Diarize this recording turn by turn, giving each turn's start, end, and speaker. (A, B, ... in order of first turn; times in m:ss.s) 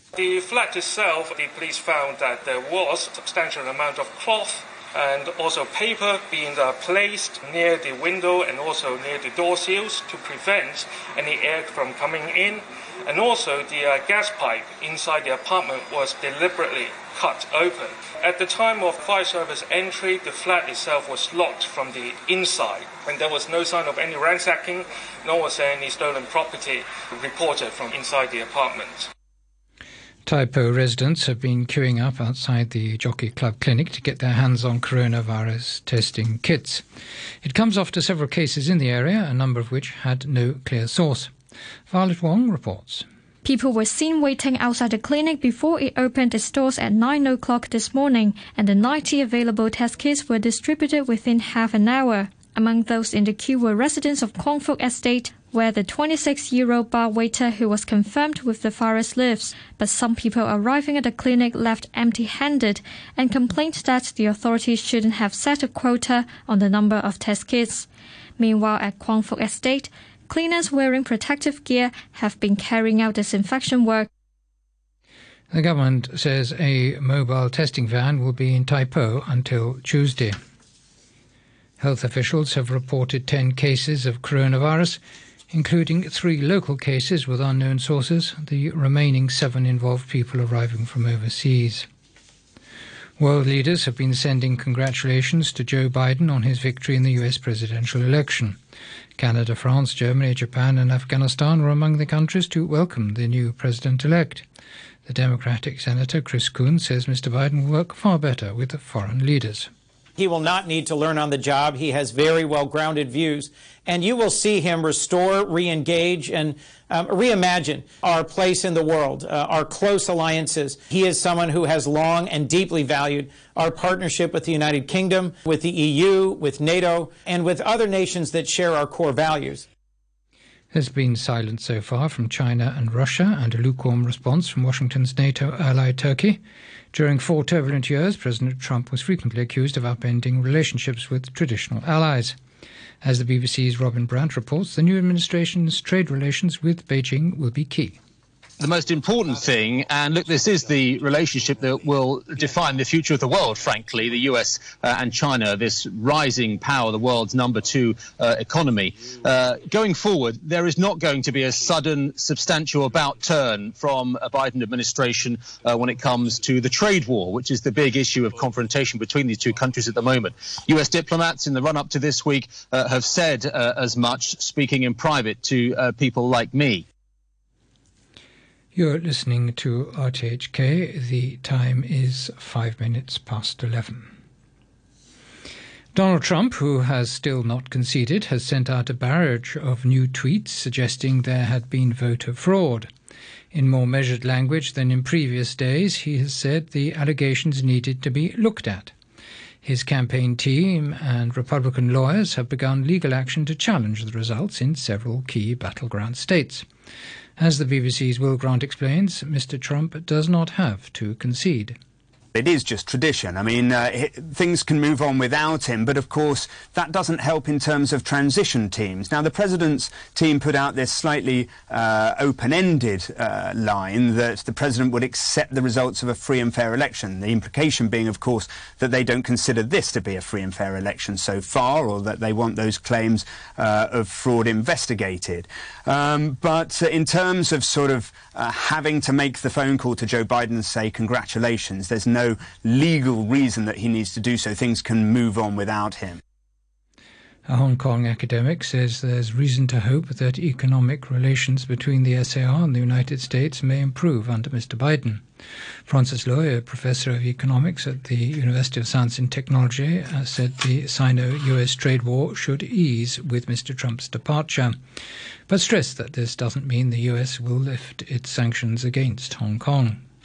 0:00.2-0:29.1 A
0:30.2-0:36.8 B
0:37.4-0:41.3 B
0:41.9-0:43.0 B
0:43.4-1:07.8 C
0:52.3-0:52.6 A
0:55.2-0:55.6 A
1:08.4-1:14.1 C
1:09.9-1:10.3 A
1:15.5-1:20.4 B
1:21.8-1:25.0 B
1:25.5-1:31.8 B
1:33.2-1:38.6 B
1:39.2-1:44.4 B
1:45.0-1:49.7 B
1:50.2-2:09.6 D
2:10.7-2:16.4 B
2:16.9-2:22.4 B
2:23.0-2:28.0 B
2:28.6-2:56.8 E
2:58.7-3:04.1 B
3:05.9-3:12.9 B
3:13.5-3:18.9 B
3:19.6-3:26.6 B
3:27.4-3:31.8 B
3:32.3-4:06.2 F
4:07.5-4:15.2 B
4:15.9-4:24.8 B
4:25.5-4:30.0 B